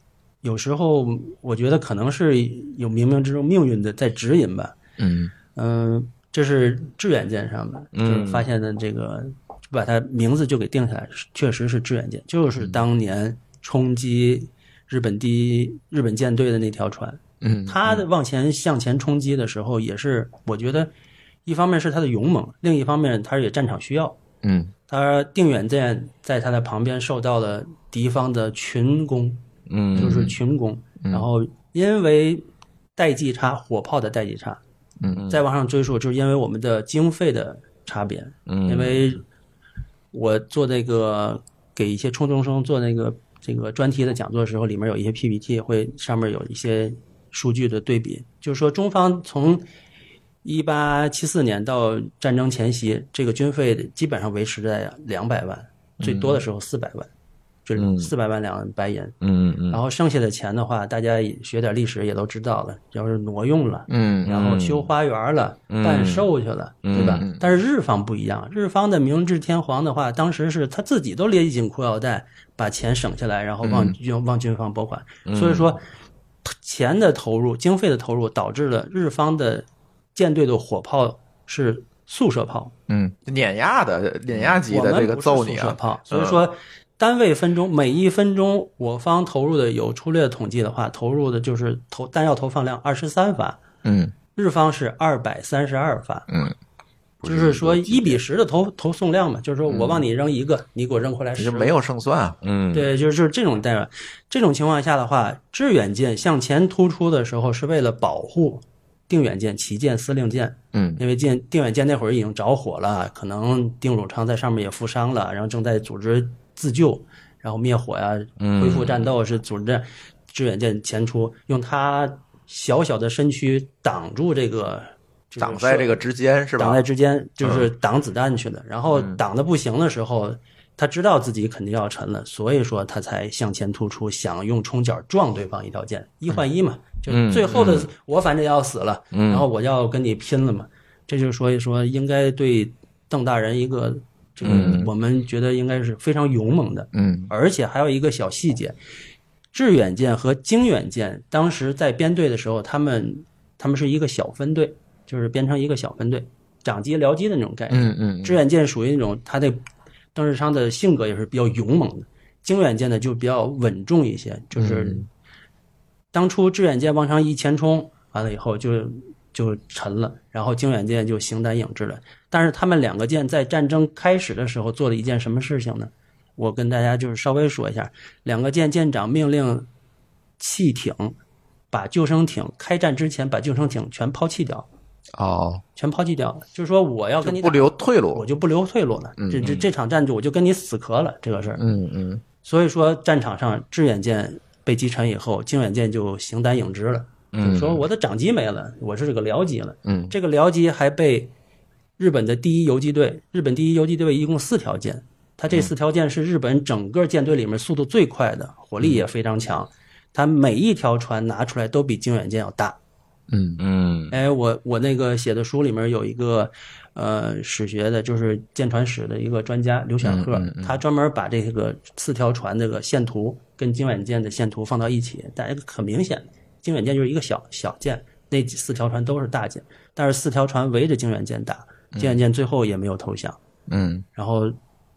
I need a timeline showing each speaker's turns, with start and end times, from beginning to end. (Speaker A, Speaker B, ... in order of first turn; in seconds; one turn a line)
Speaker A: 0.4-4.7
Speaker B: 5.0-5.3
Speaker A: 5.5-20.9
Speaker C: 7.9-8.4
Speaker B: 17.4-18.0
Speaker A: 21.4-24.2
Speaker B: 24.4-24.7
Speaker A: 24.9-29.4
Speaker C: 29.7-30.3
Speaker A: 29.9-32.4
Speaker B: 29.9-30.2
Speaker B: 31.0-31.2
Speaker A: 33.0-34.6
Speaker B: 35.0-35.2
Speaker C: 35.1-35.4
Speaker A: 35.3-39.2
Speaker C: 38.5-39.1
Speaker A: 40.1-49.6
Speaker A: 50.4-57.1
Speaker B: 56.0-56.4
Speaker A: 57.6-59.2
Speaker C: 57.8-58.1
Speaker C: 59.2-59.8
Speaker A: 59.7-75.8
Speaker B: 63.9-64.3
Speaker C: 64.2-64.9
Speaker C: 65.7-66.3
Speaker C: 66.8-67.2
Speaker B: 66.9-67.4
Speaker B: 73.6-73.9
Speaker C: 75.2-75.7
Speaker A: 76.5-82.7
Speaker B: 82.9-86.4
Speaker A: 84.7-93.6
Speaker B: 93.8-94.1
Speaker A: 94.3-96.3
Speaker B: 96.3-96.5
Speaker C: 97.2-98.2
Speaker A: 97.2-101.8
Speaker B: 101.4-102.4
Speaker C: 102.4-102.9
Speaker A: 102.7-126.0
Speaker B: 110.7-111.0
Speaker C: 118.4-119.1
Speaker B: 125.4-126.8
Speaker A: 126.6-148.8
Speaker B: 127.4-127.7
Speaker B: 128.9-129.2
Speaker C: 137.1-137.9
Speaker C: 139.1-139.4
Speaker C: 144.4-144.9
Speaker B: 144.4-144.8
Speaker B: 146.9-147.3
Speaker A: 149.5-159.6
Speaker B: 157.7-158.4
Speaker A: 160.1-165.0
Speaker B: 164.6-165.1
Speaker A: 166.1-179.7
Speaker A: 180.4-181.1
Speaker A: 181.7-184.7
Speaker B: 185.2-185.6
Speaker A: 185.8-191.6
Speaker B: 187.2-188.2
Speaker B: 189.2-189.6
Speaker B: 191.6-192.2
Speaker A: 192.4-201.3
Speaker C: 197.3-197.8
Speaker B: 199.8-200.1
Speaker A: 202.0-212.8
Speaker B: 213.3-213.6
Speaker C: 213.6-214.2
Speaker A: 214.1-233.4
Speaker B: 220.0-220.8
Speaker B: 231.9-232.2
Speaker B: 233.7-234.0
Speaker A: 234.1-234.6